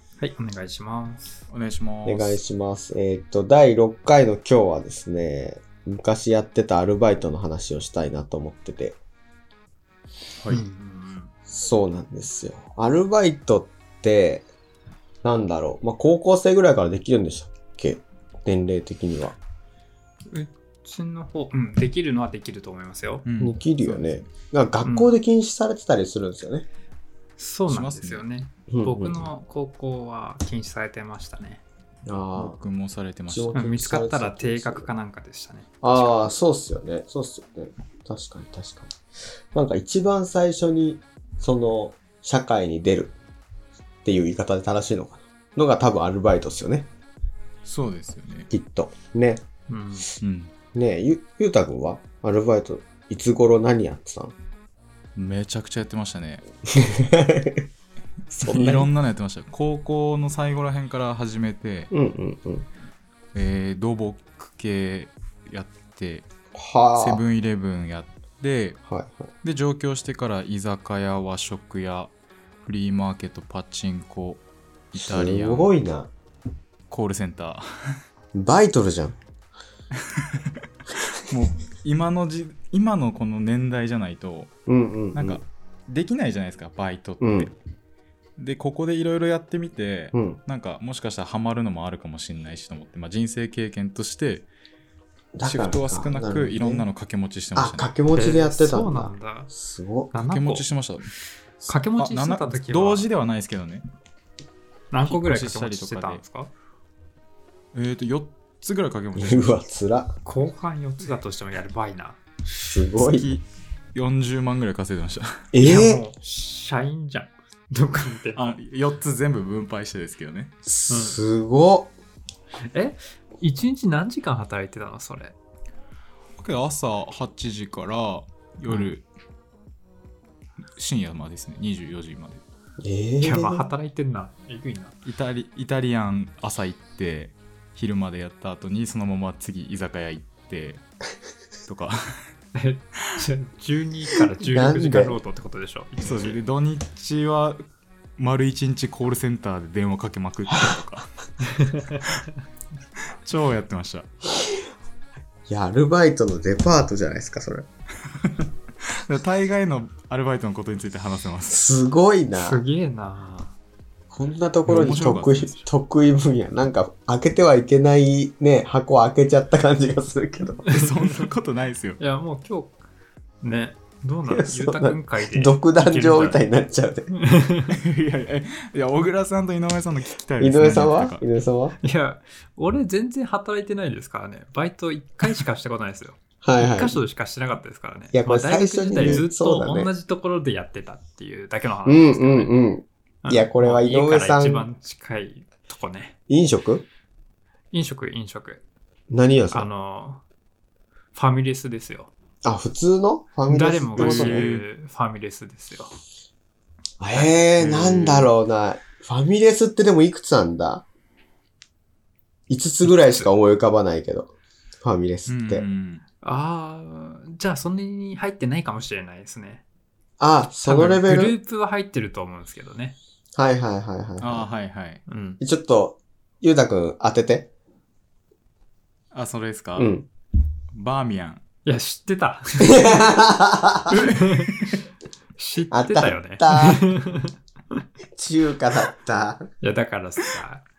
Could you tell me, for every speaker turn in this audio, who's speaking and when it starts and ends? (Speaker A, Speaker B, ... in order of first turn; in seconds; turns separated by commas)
Speaker A: 0.2-1.4, Speaker B: 1.5-2.4, Speaker C: 2.0-9.0, Speaker A: 10.5-11.3, Speaker C: 11.5-14.5, Speaker C: 15.2-19.4, Speaker A: 20.3-23.2, Speaker B: 23.2-24.1, Speaker C: 23.4-26.7, Speaker A: 24.8-25.1, Speaker A: 27.4-31.6, Speaker B: 27.7-28.2, Speaker C: 28.7-29.2, Speaker C: 32.0-32.6, Speaker B: 32.3-33.5, Speaker C: 33.3-34.9, Speaker A: 33.5-36.3, Speaker C: 35.8-38.9, Speaker C: 39.5-43.1, Speaker C: 44.0-46.9, Speaker B: 47.6-48.5, Speaker C: 48.5-49.4, Speaker A: 49.7-50.1, Speaker B: 50.2-50.5, Speaker C: 50.7-54.3, Speaker B: 55.1-56.4, Speaker C: 56.7-57.7, Speaker C: 58.3-58.9, Speaker B: 58.4-61.9, Speaker C: 61.9-62.7, Speaker B: 63.3-66.3, Speaker C: 66.5-67.2, Speaker B: 67.0-68.8, Speaker C: 68.8-69.3, Speaker B: 69.4-72.1, Speaker B: 72.6-75.7, Speaker C: 75.0-76.1, Speaker B: 76.9-77.6, Speaker C: 78.3-79.2, Speaker B: 80.1-80.5, Speaker B: 81.1-84.5, Speaker C: 84.7-85.4, Speaker B: 85.1-87.5, Speaker C: 87.2-87.5, Speaker B: 88.4-94.5, Speaker C: 90.1-90.4, Speaker C: 95.3-96.8, Speaker B: 95.4-97.9, Speaker C: 97.5-100.1, Speaker A: 98.1-99.5, Speaker A: 100.1-100.7, Speaker B: 100.2-101.0, Speaker B: 101.6-103.8, Speaker A: 101.7-103.0, Speaker A: 104.9-106.5, Speaker B: 105.0-106.2, Speaker B: 107.7-109.6, Speaker C: 109.1-110.1, Speaker A: 110.2-112.2, Speaker C: 112.5-113.3, Speaker B: 112.9-113.4, Speaker B: 113.9-115.4, Speaker C: 115.5-116.0, Speaker A: 115.6-118.6, Speaker B: 118.3-120.5, Speaker C: 120.7-121.9, Speaker A: 120.9-121.2, Speaker A: 122.7-125.3, Speaker B: 126.4-129.0, Speaker B: 130.7-132.4, Speaker C: 132.8-133.7, Speaker A: 133.2-134.9, Speaker B: 135.0-140.8, Speaker B: 141.7-142.1, Speaker A: 142.5-146.4, Speaker C: 144.5-145.2, Speaker B: 146.0-147.6, Speaker B: 148.2-151.1, Speaker A: 151.4-152.1, Speaker B: 153.2-154.1, Speaker C: 154.3-154.5, Speaker C: 155.5-157.7, Speaker B: 158.2-161.6, Speaker C: 161.5-162.6, Speaker A: 162.3-163.5, Speaker C: 164.1-170.6, Speaker B: 164.7-165.6, Speaker A: 170.7-171.2, Speaker B: 170.7-172.0, Speaker A: 172.0-172.8, Speaker A: 173.4-176.4, Speaker C: 174.3-177.1, Speaker A: 177.1-177.7, Speaker B: 177.7-181.2, Speaker C: 180.4-181.8, Speaker A: 181.8-192.5, Speaker C: 186.4-187.0, Speaker C: 188.1-189.9, Speaker C: 191.8-194.7, Speaker A: 193.2-196.1, Speaker C: 196.3-196.8, Speaker A: 197.7-198.6, Speaker C: 199.1-199.7, Speaker A: 199.5-200.2, Speaker A: 201.1-202.1, Speaker C: 202.4-204.4, Speaker A: 203.5-205.9, Speaker B: 204.0-204.7, Speaker C: 207.0-210.8, Speaker B: 207.6-208.3, Speaker C: 212.5-214.3, Speaker A: 212.8-213.3, Speaker C: 214.8-215.6, Speaker B: 215.3-216.0, Speaker A: 216.2-219.6, Speaker C: 220.2-221.3, Speaker A: 220.6-223.0, Speaker C: 223.3-224.5, Speaker B: 224.2-225.0, Speaker A: 225.1-225.4, Speaker C: 225.4-227.5, Speaker B: 229.1-229.9, Speaker C: 229.8-230.1, Speaker B: 230.7-231.4, Speaker A: 231.6-233.1, Speaker C: 232.7-233.9, Speaker A: 233.9-234.7, Speaker B: 233.9-234.7, Speaker A: 235.4-237.3, Speaker C: 235.7-236.8, Speaker C: 238.1-239.5, Speaker A: 239.6-240.6